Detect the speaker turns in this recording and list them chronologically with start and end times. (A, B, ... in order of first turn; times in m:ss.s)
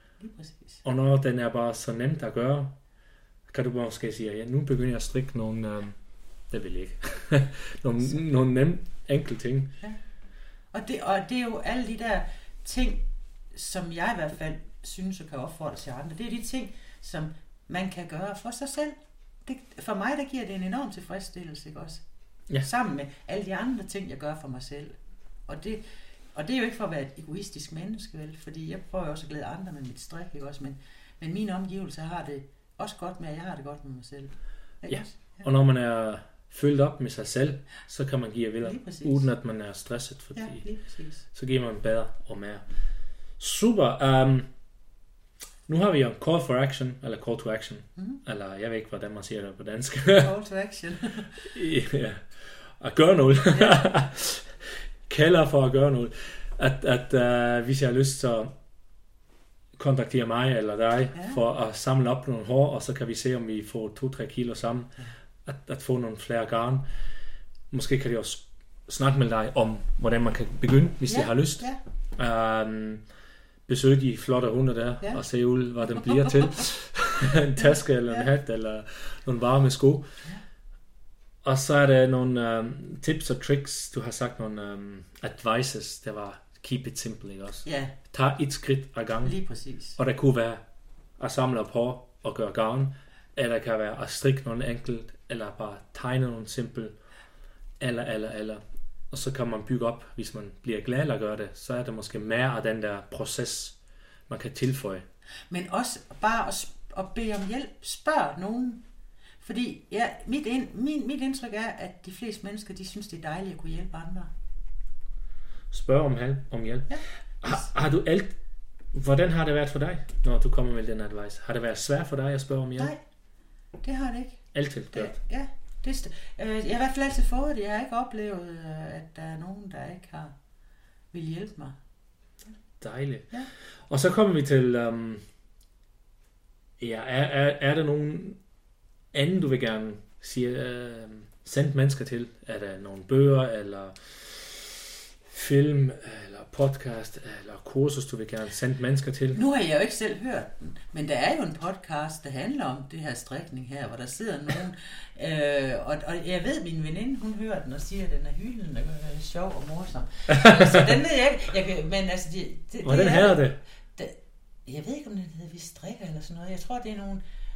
0:00.2-0:00.8 A
0:00.8-0:02.8 B
0:03.5-0:09.7 B
0:10.7-0:22.0 A
0:22.6-0:35.4 A
0:34.9-0:40.6 B
0:38.6-0:39.2 A
0:40.4-0:41.2 A
0:41.3-0:42.6 B
0:43.4-0:44.5 B
0:45.7-0:50.3 B
0:50.2-0:51.3 A
0:51.4-0:58.5 B
0:53.5-0:53.8 A
0:59.8-1:04.9 B
1:05.4-1:06.8 B
1:07.7-1:13.0 B
1:11.1-1:11.8 A
1:13.7-1:20.1 B
1:16.1-1:16.5 A
1:17.6-1:18.3 A
1:21.4-1:29.4 B
1:27.6-1:27.9 A
1:29.2-1:30.0 A
1:30.0-1:30.6 B
1:31.2-1:37.0 B
1:37.8-1:43.8 B
1:44.3-1:45.0 B
1:45.5-1:48.8 A
1:49.4-1:54.3 A
1:55.7-1:58.4 B
1:56.9-1:57.7 A
1:58.9-2:02.9 B
2:03.8-2:10.3 A
2:04.5-2:05.1 B
2:11.1-2:11.8 A
2:12.8-2:13.3 B
2:13.9-2:15.2 B
2:16.8-2:18.4 B
2:19.1-2:29.4 B
2:29.3-2:43.4 A
2:40.3-2:40.6 B
2:42.8-2:43.6 B
2:43.9-2:47.2 A